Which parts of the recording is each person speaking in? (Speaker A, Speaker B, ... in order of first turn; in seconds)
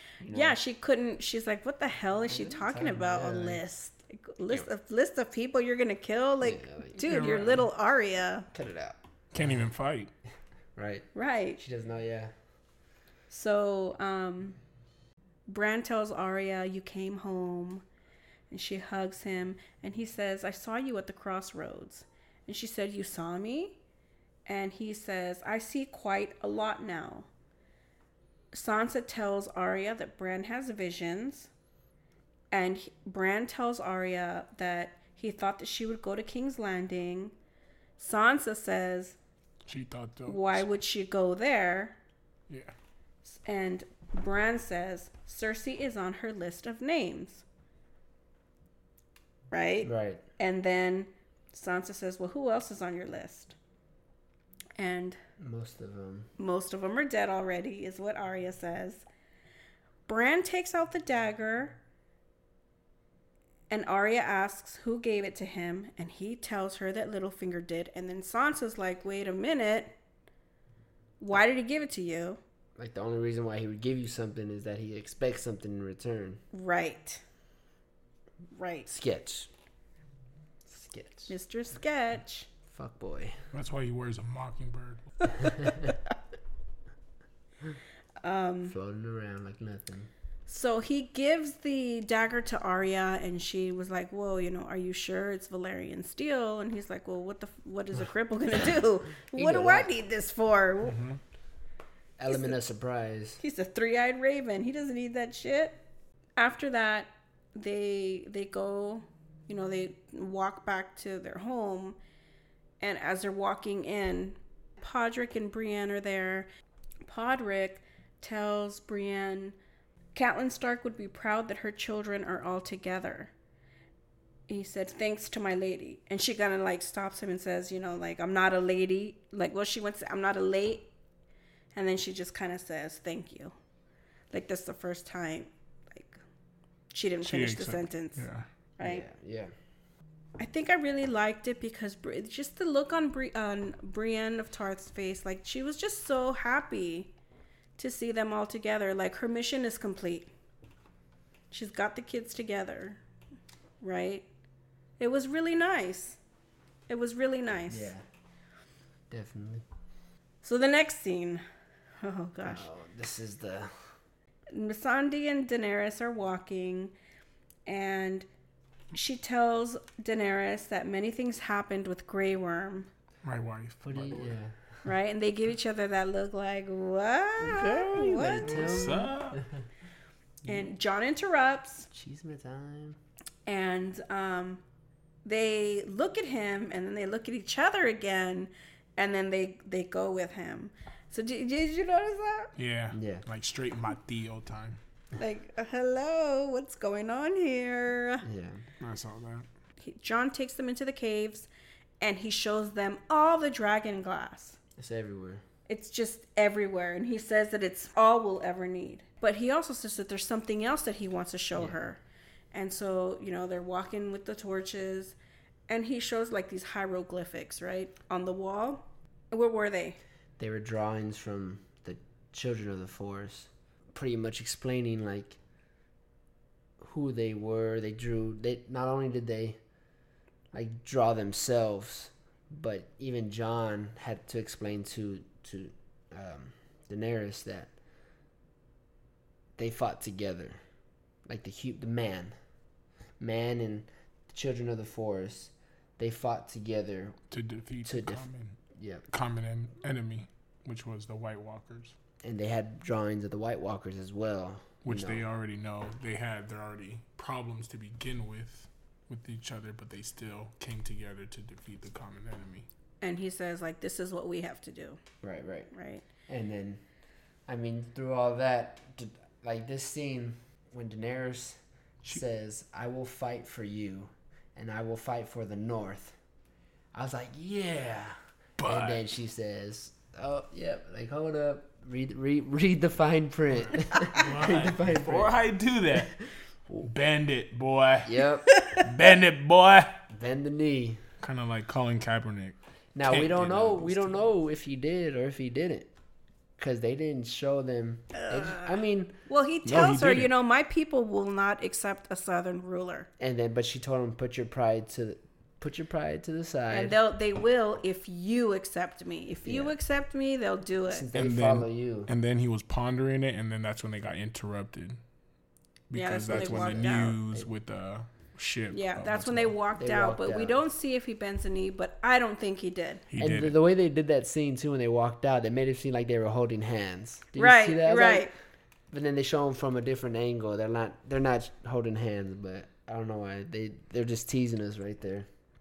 Speaker A: 0.2-0.6, 2.3-3.6, 6.4-7.5, 8.5-9.6, 10.8-12.3, 49.8-50.2, 55.4-56.3, 72.8-76.4, 78.9-79.5, 80.7-81.3, 82.7-83.4, 88.7-90.1, 99.3-99.9, 102.2-103.4, 138.8-139.5, 157.7-158.0, 159.1-159.7, 162.4-163.9, 173.8-174.8, 177.4-179.5, 181.9-183.0, 192.9-193.2, 198.2-198.6, 204.8-205.4, 220.4-225.4, 226.8-229.6, 230.5-237.7, 239.6-240.6, 241.3-242.3, 243.2-247.2, 247.8-249.1, 252.2-255.2, 265.2-265.7, 266.3-266.8, 267.5-276.2, 276.9-285.3, 288.1-288.5, 290.1-291.0, 292.9-295.9, 296.6-299.2, 303.2-307.0, 309.4-309.8, 310.9-312.1, 316.3-317.5, 319.8-320.6, 323.2-328.3, 328.9-335.3
Speaker B: 0.3-8.5, 11.2-11.6, 13.3-14.6, 15.5-17.9, 18.5-23.8, 24.5-27.3, 28.5-31.5, 32.5-37.3, 38.0-39.2, 40.3-42.0, 43.2-47.5, 49.5-53.6, 54.8-55.2, 56.4-59.1, 60.1-61.8, 63.7-70.0, 71.2-72.4, 76.5-77.2, 78.5-78.9, 81.3-82.5, 85.2-86.0, 88.2-88.8, 90.5-101.0, 102.3-102.6, 103.4-105.8, 106.4-112.0, 112.8-116.5, 117.1-119.6, 120.2-123.3, 124.5-130.9, 131.8-133.6, 134.3-136.2, 136.9-138.2, 138.8-139.1, 140.4-147.1, 147.8-150.3, 151.5-153.0, 153.8-154.3, 155.0-156.2, 156.9-157.9, 160.4-161.4, 162.0-162.7, 164.5-166.9, 167.7-168.3, 168.9-172.9, 174.8-179.0, 180.4-181.9, 183.5-184.6, 185.2-192.5, 195.2-198.2, 199.8-201.5, 202.0-204.6, 205.7-212.0, 212.5-215.2, 215.7-220.0, 263.0-265.0, 265.7-266.0, 298.1-298.8, 299.3-303.1, 306.7-311.1, 315.9-317.2, 318.7-323.0, 327.4-328.3
Speaker C: 7.0-7.7, 9.3-10.1, 39.7-40.7, 42.5-42.7, 83.5-85.2, 100.8-101.2, 137.2-138.5, 173.2-174.3, 178.1-179.4, 192.6-194.8, 198.8-199.5, 247.3-251.9, 254.8-262.7, 278.6-279.0, 284.1-286.3, 286.8-290.1, 291.2-294.3, 299.7-300.3, 311.1-315.0, 315.9-319.5, 323.1-323.6